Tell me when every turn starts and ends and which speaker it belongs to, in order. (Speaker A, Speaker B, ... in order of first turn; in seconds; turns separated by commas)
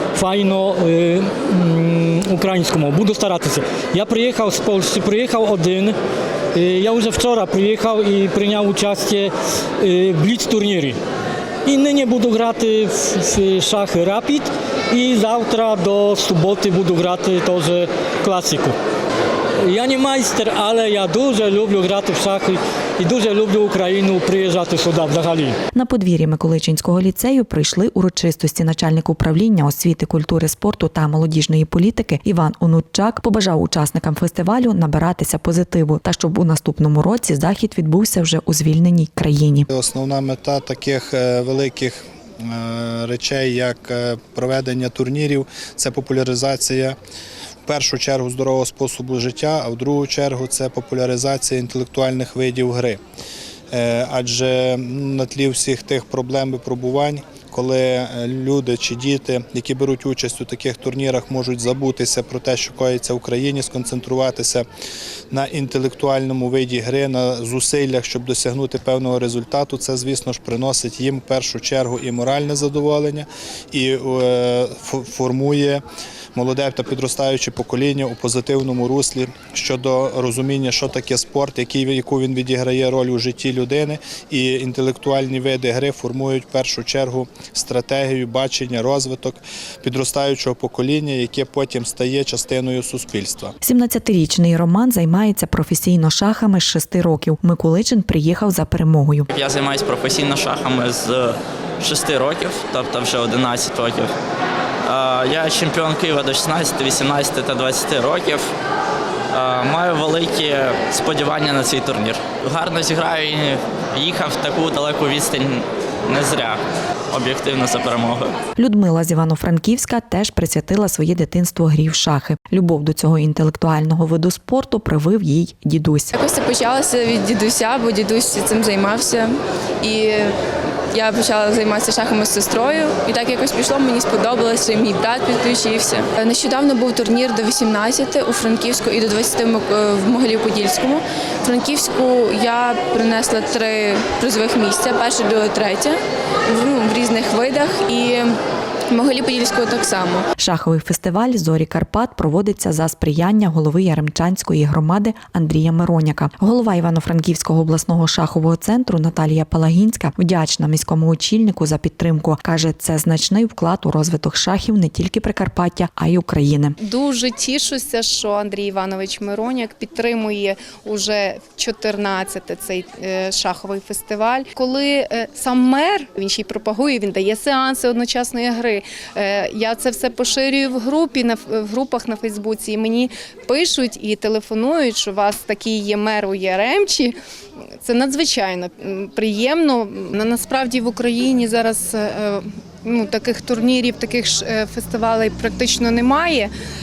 Speaker A: 0.1-6.0, Speaker A: 6.5-11.0, Speaker A: 11.6-18.7, Speaker A: 19.6-25.6, Speaker B: 25.7-39.7, Speaker C: 39.7-47.0, Speaker C: 47.6-53.0, Speaker C: 53.7-64.7, Speaker C: 65.3-75.8, Speaker C: 76.3-93.5, Speaker B: 93.6-99.3, Speaker D: 99.3-104.1, Speaker D: 104.8-108.5, Speaker D: 109.3-118.3, Speaker B: 118.6-126.1, Speaker E: 126.2-129.2, Speaker E: 131.1-145.9, Speaker E: 146.6-147.9, Speaker E: 149.0-149.9, Speaker B: 150.4-166.8, Speaker F: 166.8-187.1, Speaker F: 187.8-196.5